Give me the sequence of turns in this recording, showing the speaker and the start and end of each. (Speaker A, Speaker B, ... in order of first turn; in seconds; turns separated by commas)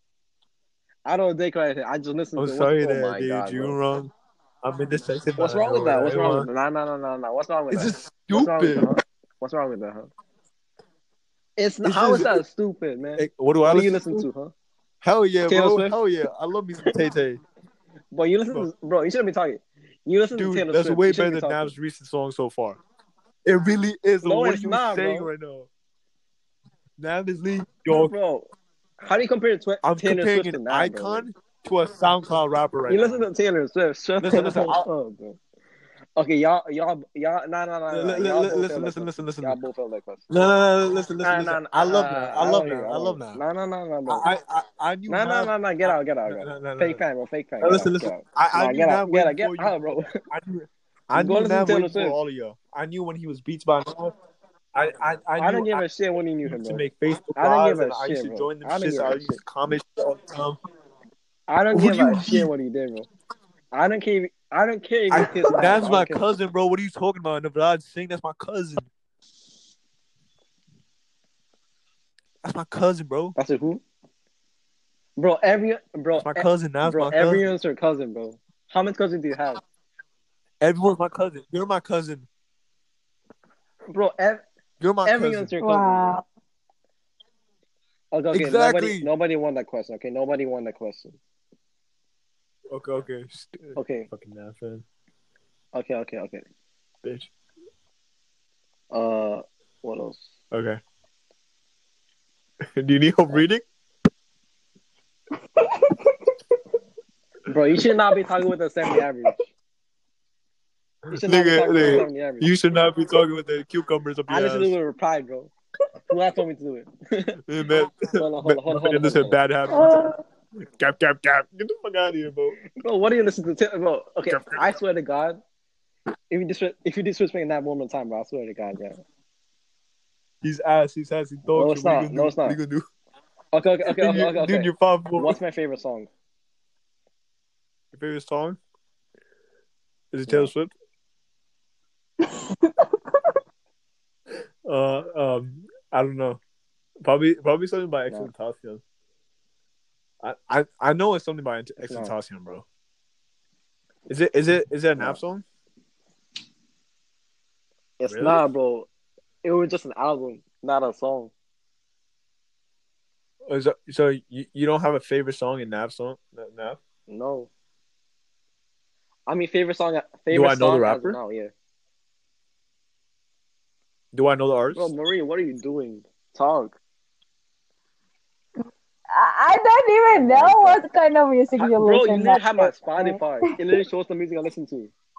Speaker A: 1.0-3.8, Speaker B: 2.4-6.5, Speaker A: 5.4-10.1, Speaker B: 7.7-8.9, Speaker A: 11.6-14.5, Speaker B: 11.8-12.4, Speaker B: 13.2-14.2, Speaker B: 15.0-17.4, Speaker A: 15.5-16.0, Speaker A: 18.1-21.7, Speaker B: 20.3-22.8, Speaker B: 23.4-25.7, Speaker A: 24.2-25.3, Speaker B: 27.0-28.1, Speaker A: 27.9-28.5, Speaker A: 29.0-31.3, Speaker B: 29.8-33.2, Speaker A: 32.9-35.4, Speaker B: 34.2-34.9, Speaker A: 36.2-40.3, Speaker B: 37.9-39.6, Speaker B: 40.3-43.4, Speaker A: 41.2-44.2, Speaker B: 44.1-47.0, Speaker A: 45.1-50.2, Speaker B: 47.6-54.1, Speaker A: 51.1-52.2, Speaker B: 54.7-55.9, Speaker A: 55.4-56.8, Speaker B: 56.4-60.6, Speaker A: 57.4-59.4, Speaker A: 61.5-63.1, Speaker B: 61.7-62.5, Speaker A: 63.7-66.2, Speaker B: 65.1-68.9, Speaker B: 72.4-73.3, Speaker A: 73.3-73.8, Speaker A: 75.2-79.6, Speaker B: 76.2-77.4, Speaker B: 80.6-82.3, Speaker A: 83.9-84.4, Speaker B: 84.8-85.5, Speaker A: 85.0-86.2, Speaker C: 85.6-86.2, Speaker A: 88.1-91.2, Speaker B: 88.3-89.1, Speaker B: 92.7-94.8, Speaker A: 93.8-94.1, Speaker A: 95.7-96.4, Speaker B: 97.0-97.3, Speaker A: 98.9-100.2, Speaker B: 100.5-100.8, Speaker B: 102.8-103.6, Speaker C: 105.6-106.3, Speaker A: 107.5-109.4, Speaker A: 111.1-112.5, Speaker B: 111.1-114.7, Speaker A: 114.3-115.5, Speaker A: 116.1-117.4, Speaker B: 117.5-120.0, Speaker A: 118.1-119.4, Speaker C: 119.7-120.2, Speaker B: 120.6-122.6, Speaker A: 122.8-125.4, Speaker B: 124.3-124.7, Speaker A: 126.3-129.0, Speaker B: 130.4-132.9, Speaker A: 131.5-132.6, Speaker A: 133.5-136.1, Speaker B: 133.9-135.4, Speaker B: 137.9-138.6, Speaker B: 140.1-140.7, Speaker C: 142.2-143.2, Speaker B: 144.7-146.4, Speaker B: 147.0-148.8, Speaker B: 150.2-152.6, Speaker A: 151.8-152.1, Speaker B: 154.1-155.4, Speaker A: 158.0-158.9, Speaker B: 158.1-158.4, Speaker A: 159.4-161.3, Speaker B: 163.5-166.8, Speaker A: 167.1-167.5, Speaker A: 169.3-171.5, Speaker B: 170.3-171.2, Speaker B: 174.1-174.9, Speaker A: 174.7-176.8, Speaker C: 179.1-183.2, Speaker A: 180.1-180.8, Speaker A: 181.6-184.9